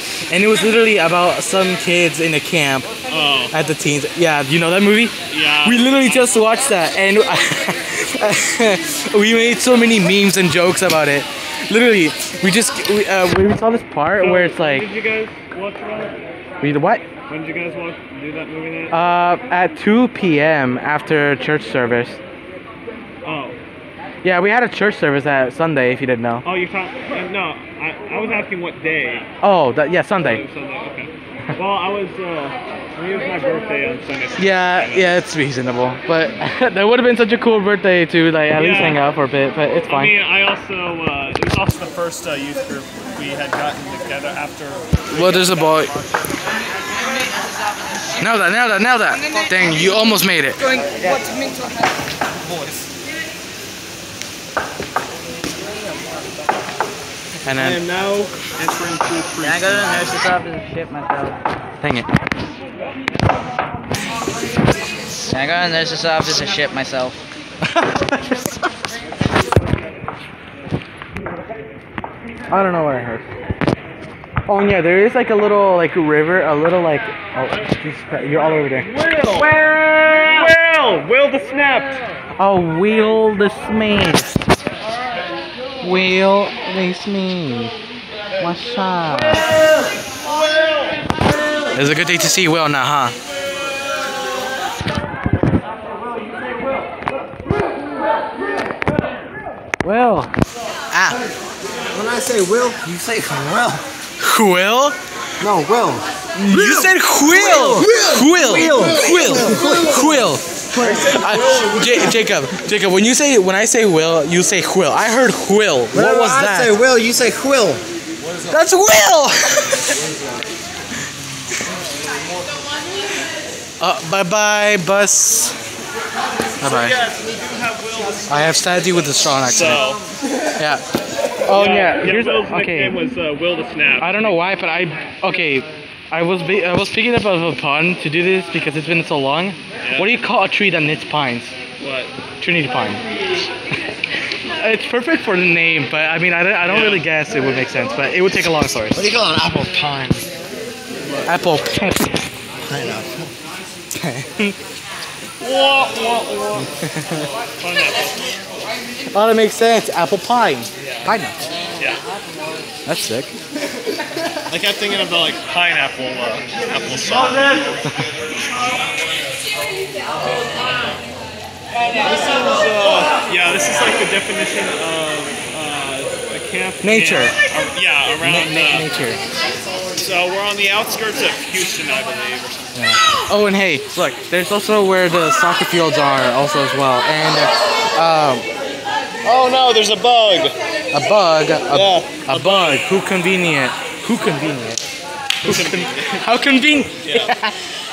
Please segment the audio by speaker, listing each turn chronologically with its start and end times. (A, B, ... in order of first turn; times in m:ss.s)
0:00.3-0:02.9 A
0:03.1-0:03.5 B
0:03.5-0:14.9 A
0:05.3-0:06.3 B
0:14.1-0:16.2 B
0:16.6-0:17.0 A
0:17.3-0:19.0 B
0:18.9-0:22.2 A
0:23.2-0:23.6 B
0:24.2-0:26.4 A
0:26.4-0:29.3 B
0:29.4-0:30.4 A
0:30.2-0:35.2 B
0:34.4-0:40.2 A
0:38.5-0:39.0 B
0:39.9-0:46.0 B
0:45.1-0:45.9 A
0:48.2-0:50.6 A
0:51.0-0:51.4 C
0:57.4-0:57.8 A
0:57.5-1:00.2 B
0:59.4-1:01.4 C
1:01.8-1:02.1 A
1:05.3-1:07.2 C
1:07.6-1:08.5 A
1:12.5-1:13.2 A
1:14.5-1:18.9 A
1:18.8-1:22.0 B
1:19.6-1:20.4 A
1:22.4-1:24.5 A
1:25.8-1:27.7 A
1:28.4-1:29.5 A
1:31.7-1:33.1 A
1:39.8-1:40.3 A
1:40.9-1:41.2 A
1:41.9-1:43.8 D
1:44.2-1:45.0 A
1:45.4-1:51.9 D
1:46.3-1:56.8 A
1:55.9-1:57.8 D
1:58.5-1:59.9 A
2:03.8-2:05.6 A
2:06.6-2:07.0 A
2:06.6-2:08.7 B
2:08.3-2:09.8 A
2:09.4-2:10.0 B
2:10.6-2:10.8 A
2:11.4-2:13.0 A
2:11.5-2:14.4 B
2:14.0-2:21.5 A
2:19.8-2:20.2 B
2:21.8-2:22.1 B
2:22.4-2:23.0 A
2:24.6-2:29.1 A
2:26.6-2:27.1 B
2:28.9-2:30.3 D
2:31.0-2:31.3 B
2:31.2-2:32.2 A
2:32.6-2:33.3 D
2:33.9-2:34.6 A
2:35.4-2:36.7 B
2:36.8-2:37.3 A
2:37.6-2:38.3 B
2:39.1-2:41.4 A
2:40.8-2:41.1 B
2:41.8-2:42.0 B
2:42.8-2:43.3 A
2:44.5-2:47.9 B
2:52.1-2:58.9 B
2:56.8-2:57.4 A
2:58.2-2:59.2 A
2:59.9-3:02.8 B
3:02.7-3:08.4 A
3:09.2-3:10.5 B
3:10.9-3:14.8 A
3:11.7-3:12.9 B
3:15.4-3:17.5 A
3:15.4-3:16.4 B
3:17.0-3:17.3 B